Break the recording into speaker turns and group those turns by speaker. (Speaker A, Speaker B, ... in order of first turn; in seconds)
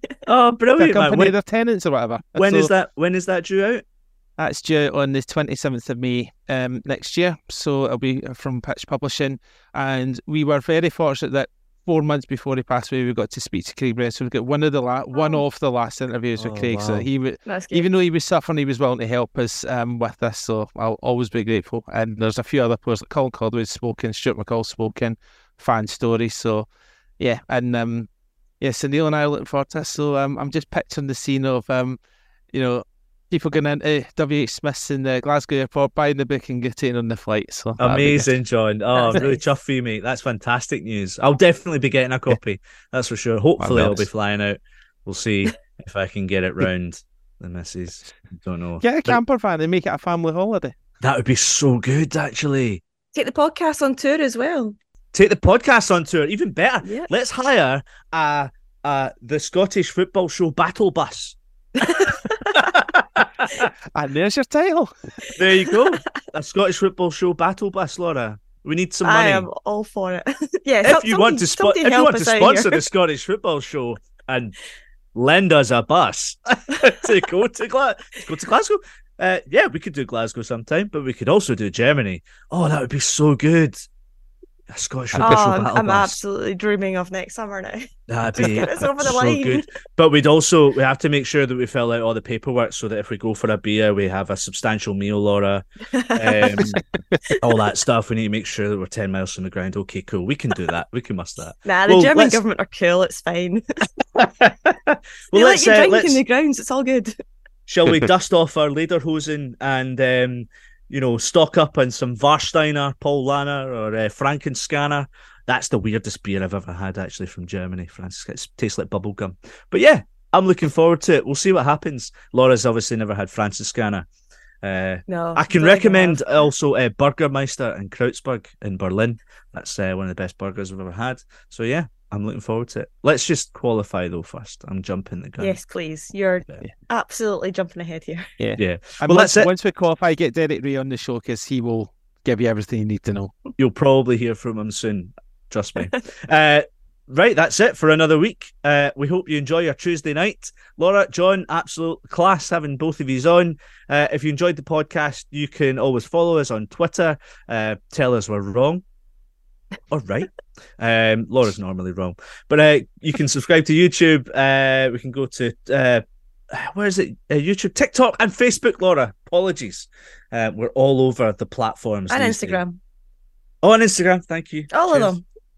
Speaker A: 0.3-1.4, 2.4-3.8, 16.4-17.1, 37.8-49.2, 51.0-52.8, 55.1-63.7, 65.3-69.5, 70.8-74.5, 75.2-83.8, 84.7-86.2, 88.1-96.8, 97.4-102.4, 104.2-106.2, 107.7-124.1, 124.6-135.6, 138.6-139.5, 143.6-158.8, 159.9-172.6, 173.6-175.2
Speaker B: 0.8-2.7, 4.4-26.7, 27.2-28.1, 28.6-32.0, 32.5-38.3, 43.6-44.1, 48.8-50.8, 64.0-64.9, 138.4-143.3
Speaker C: 17.5-17.9, 38.9-39.4, 53.1-54.8, 56.8-57.1, 61.8-62.7, 69.0-72.8, 85.2-89.6, 95.9-96.8, 101.7-103.6, 105.3-107.2, 125.1-126.2, 135.4-138.3, 172.1-172.8, 174.7-175.2